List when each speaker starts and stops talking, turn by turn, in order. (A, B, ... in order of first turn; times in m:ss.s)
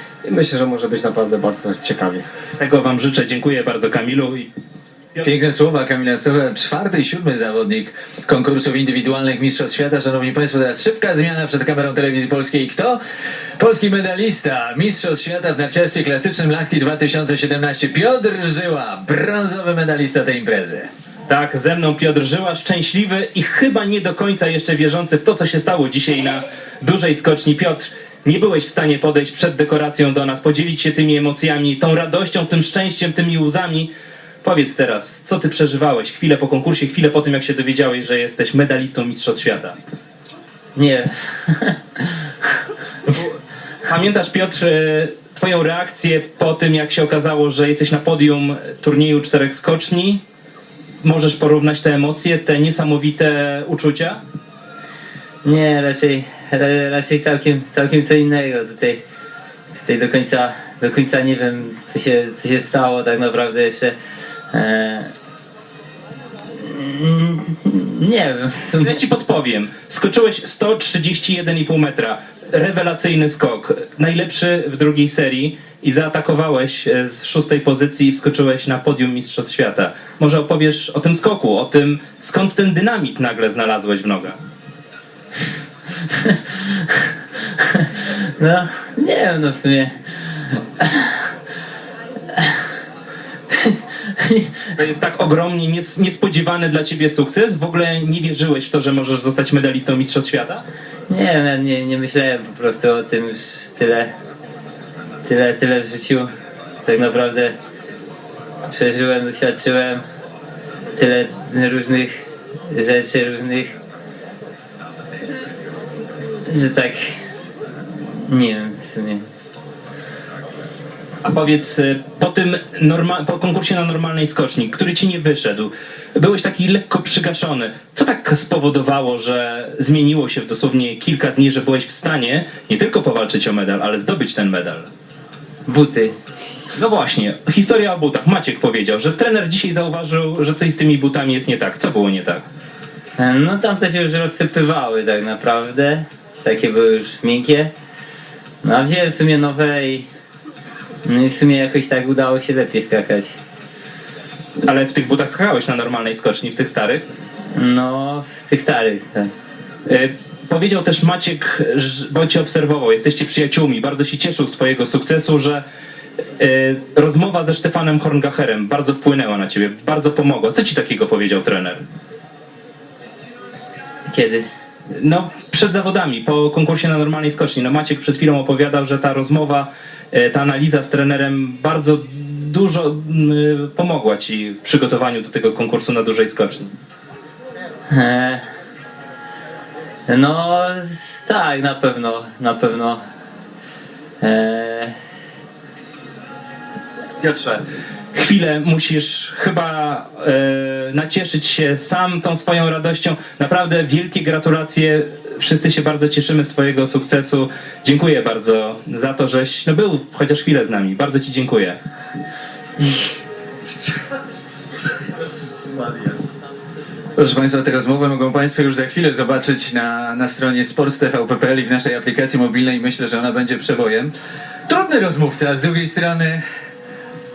0:00.2-0:02.2 A
0:02.6-0:04.5 B
0:05.2-0:13.0 C
0:13.6-0:20.9 C
0:21.3-0:33.9 B
0:34.4-0:39.7 B
0:40.8-0:42.0 D
0:43.1-0:43.3 B
0:43.8-0:50.2 B
0:51.0-0:54.2 B
0:55.4-0:59.0 D
0:59.7-1:03.9 D
1:04.5-1:05.1 D
1:06.6-1:09.0 D
1:08.8-1:24.4 B
1:26.1-1:26.6 D
1:27.6-1:31.1 D
1:33.5-1:34.5 D
1:34.8-1:40.6 B
1:41.1-1:44.1 D
1:45.2-1:46.3 D
1:46.8-1:47.5 D
1:48.7-1:50.0 D
1:51.0-1:52.1 D
1:52.7-1:53.7 D
1:56.4-1:57.2 D
1:58.1-1:59.2 D
2:01.2-2:14.9 B
2:15.6-2:16.1 D
2:16.7-2:22.4 B
2:23.2-2:27.7 D
2:28.6-2:30.1 D
2:31.0-2:33.3 D
2:34.6-2:37.0 B
2:37.5-2:39.3 D
2:39.8-2:45.6 B
2:46.4-2:51.8 B
2:54.1-2:54.4 D
2:54.9-3:06.7 B
3:07.9-3:08.4 D
3:10.1-3:13.0 D
3:14.2-3:14.9 D
3:17.2-3:17.6 B
3:18.1-3:31.8 B
3:37.2-3:44.1 C
3:44.7-3:46.4 C